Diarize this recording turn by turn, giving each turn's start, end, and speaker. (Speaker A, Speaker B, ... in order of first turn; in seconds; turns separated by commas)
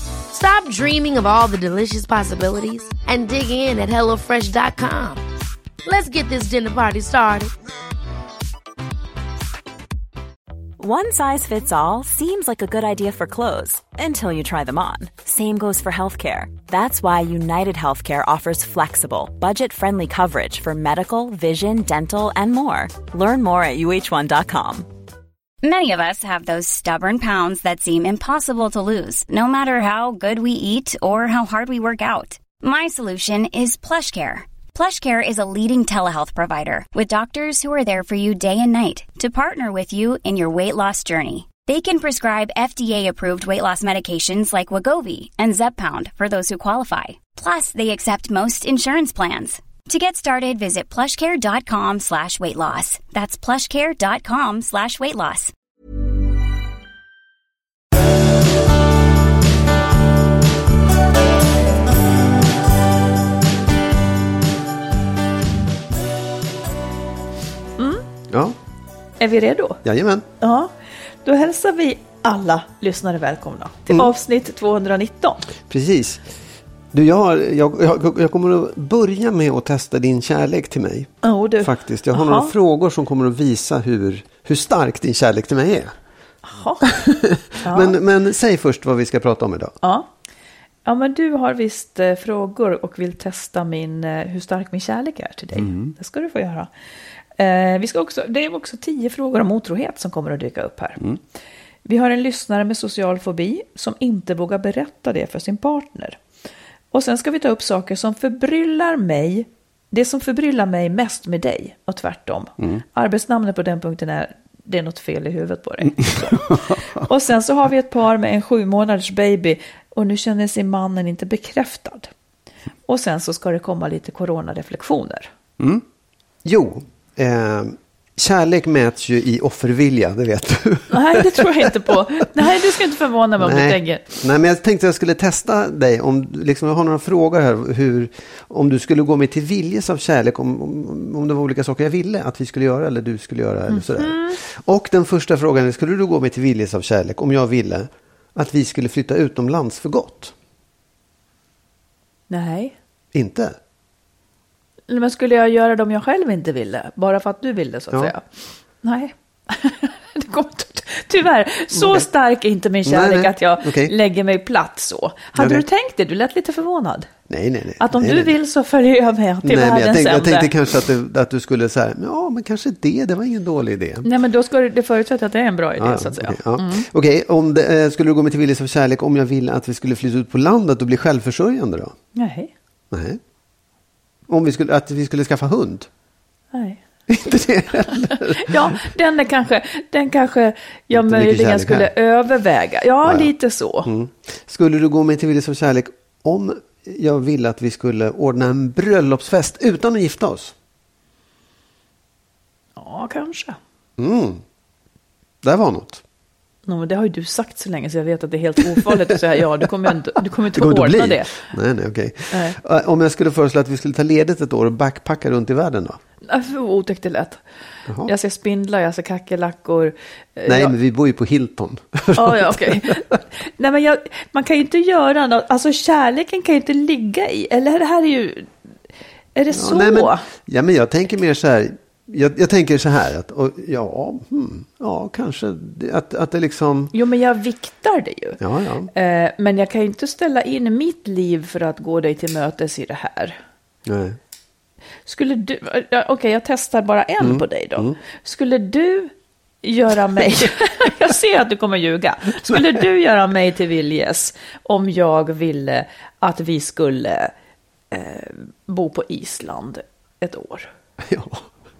Speaker A: 0.3-5.2, Speaker A: 5.8-7.5, Speaker B: 10.8-24.9, Speaker C: 25.6-55.5, Speaker D: 67.8-68.0, Speaker E: 68.3-68.5, Speaker D: 69.2-69.8, Speaker E: 69.8-70.2, Speaker D: 70.4-70.7, Speaker D: 71.2-75.5, Speaker E: 75.7-76.3, Speaker E: 76.9-86.0, Speaker D: 81.2-82.5, Speaker D: 86.4-86.9, Speaker E: 86.9-89.7, Speaker D: 87.6-88.0, Speaker D: 89.8-90.1, Speaker D: 90.8-96.7, Speaker E: 95.5-95.9, Speaker D: 97.3-101.0, Speaker D: 101.8-106.2, Speaker D: 106.9-122.1, Speaker E: 116.0-116.8, Speaker D: 122.9-125.3, Speaker E: 125.6-125.8, Speaker E: 126.4-131.9, Speaker D: 130.9-134.2, Speaker E: 133.4-150.3, Speaker D: 143.7-144.4, Speaker D: 152.3-152.7, Speaker E: 153.1-153.6, Speaker D: 154.9-158.3, Speaker D: 158.8-167.1, Speaker E: 161.7-162.1, Speaker E: 162.8-163.9, Speaker E: 165.3-165.6, Speaker E: 167.3-168.3, Speaker D: 167.8-170.5, Speaker E: 169.4-174.1, Speaker D: 174.0-176.9, Speaker E: 175.8-181.9, Speaker D: 182.2-182.5, Speaker E: 182.9-183.2, Speaker E: 184.3-185.9, Speaker D: 186.5-186.8, Speaker E: 187.1-188.7, Speaker D: 188.4-193.9, Speaker E: 190.9-191.9, Speaker E: 193.0-193.3, Speaker E: 193.8-200.5, Speaker D: 202.8-203.6, Speaker E: 204.0-204.4, Speaker E: 205.4-206.0, Speaker D: 206.7-211.3, Speaker E: 210.5-216.0, Speaker D: 212.3-212.6, Speaker D: 216.3-217.4, Speaker D: 218.0-220.7, Speaker E: 220.4-223.2, Speaker D: 222.1-228.5, Speaker D: 229.3-230.2, Speaker E: 229.5-236.9, Speaker D: 236.9-238.4, Speaker E: 238.4-238.9, Speaker D: 238.9-243.4, Speaker E: 243.8-244.2, Speaker D: 245.1-249.1, Speaker E: 247.2-248.0, Speaker D: 249.6-257.3, Speaker E: 252.5-252.8, Speaker D: 257.9-260.7, Speaker E: 261.0-261.5